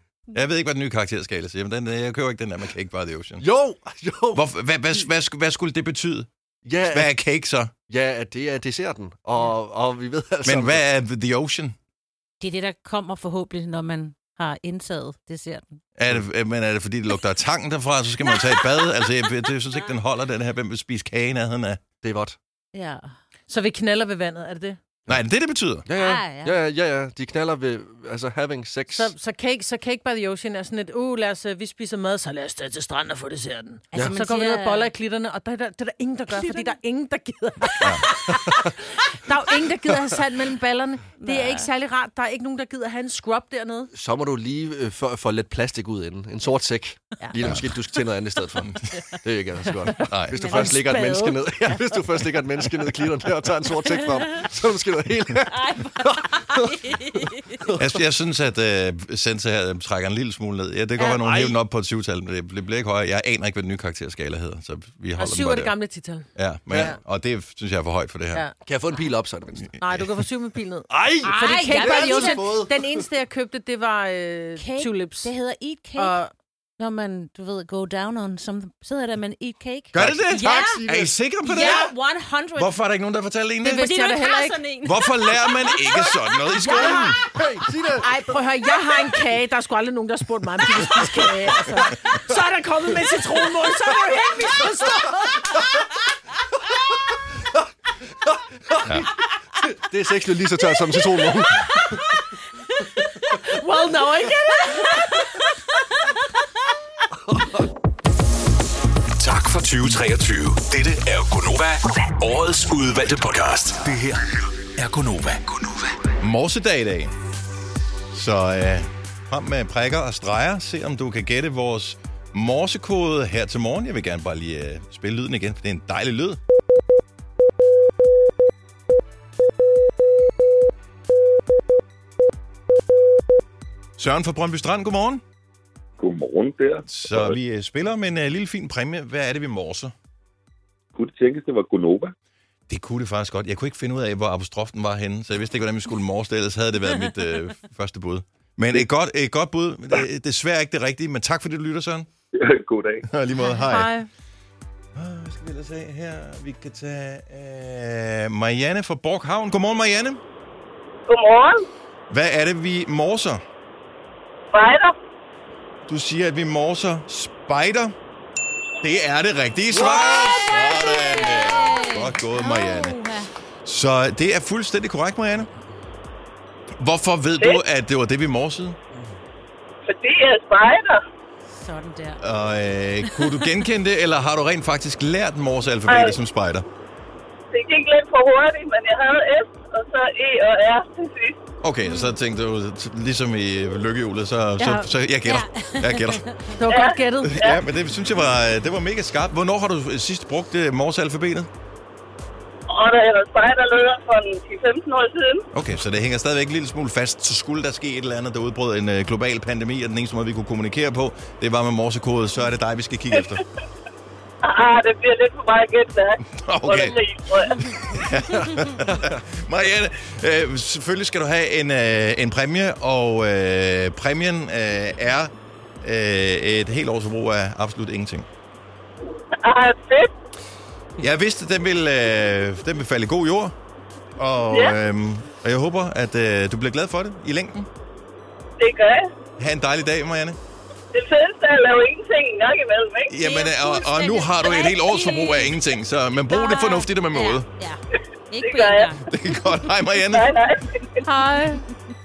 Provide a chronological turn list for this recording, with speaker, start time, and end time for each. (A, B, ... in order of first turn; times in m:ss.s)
0:00.3-0:03.4 A
0:03.4-0:04.4 B
0:04.3-0:06.3 A
0:06.6-0:07.1 B
0:06.9-0:07.7 A
0:07.9-0:10.8 B
0:10.4-0:11.7 A
0:12.4-0:15.8 C
0:16.0-0:21.8 A
0:22.0-0:22.4 B
0:22.7-0:23.1 C
0:23.5-0:24.8 D
0:25.1-0:25.9 A
0:25.8-0:29.1 B
0:26.0-0:26.6 C
0:28.9-0:43.9 D
0:33.9-0:34.9 C
0:36.3-0:36.7 C
0:41.2-0:41.7 C
0:43.9-0:48.7 B
0:47.4-0:47.7 A
0:49.2-0:56.7 B
0:50.0-0:50.7 A
0:50.3-0:51.3 C
0:50.5-0:51.0 D
0:55.5-0:57.6 C
0:57.6-0:58.0 B
0:57.8-1:05.8 A
1:01.0-1:01.6 B
1:05.2-1:06.3 D
1:06.4-1:08.5 A
1:06.7-1:07.0 B
1:08.6-1:09.8 B
1:09.8-1:15.3 D
1:10.9-1:12.8 B
1:11.2-1:12.6 C
1:14.6-1:16.2 C
1:16.0-1:16.3 D
1:16.8-1:20.8 C
1:19.9-1:21.9 A
1:20.0-1:21.1 B
1:21.4-1:22.7 C
1:22.6-1:23.8 A
1:23.6-1:24.6 D
1:23.7-1:26.1 C
1:24.8-1:27.2 A
1:26.7-1:27.1 D
1:26.7-1:28.1 B
1:28.0-1:35.6 D
1:38.3-1:39.1 B
1:39.6-1:41.8 B
1:43.3-1:45.3 D
1:47.3-1:47.6 B
1:49.2-1:54.2 E
1:54.8-1:55.7 E
1:56.2-1:57.1 A
1:58.1-2:06.4 A
2:14.0-2:15.2 A
2:16.0-2:17.4 F
2:16.9-2:19.9 A
2:20.9-2:22.1 F
2:22.7-2:32.1 A
2:32.3-2:33.0 F
2:33.1-2:33.9 A
2:33.6-2:34.1 D
2:34.9-2:40.2 A
2:41.1-2:41.6 G
2:42.1-2:43.4 A
2:44.5-2:44.9 G
2:45.9-2:47.9 A
2:48.8-2:53.0 A
2:49.7-2:50.4 B
2:49.8-2:53.3 C
2:53.6-2:55.5 A
2:56.8-2:58.8 A
2:59.8-3:01.0 G
3:01.5-3:02.2 C
3:02.2-3:06.6 A
3:03.0-3:03.4 C
3:05.9-3:06.2 G
3:07.5-3:11.4 G
3:11.6-3:16.2 A
3:11.8-3:12.1 C
3:14.6-3:14.9 D
3:15.2-3:16.6 C
3:16.6-3:17.4 D
3:16.7-3:17.6 G
3:17.2-3:21.5 A
3:22.7-3:25.4 G
3:25.5-3:33.4 A
3:34.4-3:37.6 G
3:36.2-3:37.0 A
3:37.7-3:48.3 A
3:49.4-3:50.1 G
3:51.0-3:53.5 A
3:54.2-3:57.7 A
3:54.5-3:54.8 G
3:58.6-3:59.1 G
3:59.4-4:00.4 A
4:00.9-4:03.2 G
4:03.1-4:07.4 A
4:03.2-4:05.6 C
4:06.3-4:07.8 C
4:08.3-4:09.0 C
4:08.4-4:08.9 G
4:09.0-4:10.3 A
4:10.1-4:11.0 G
4:11.0-4:11.6 D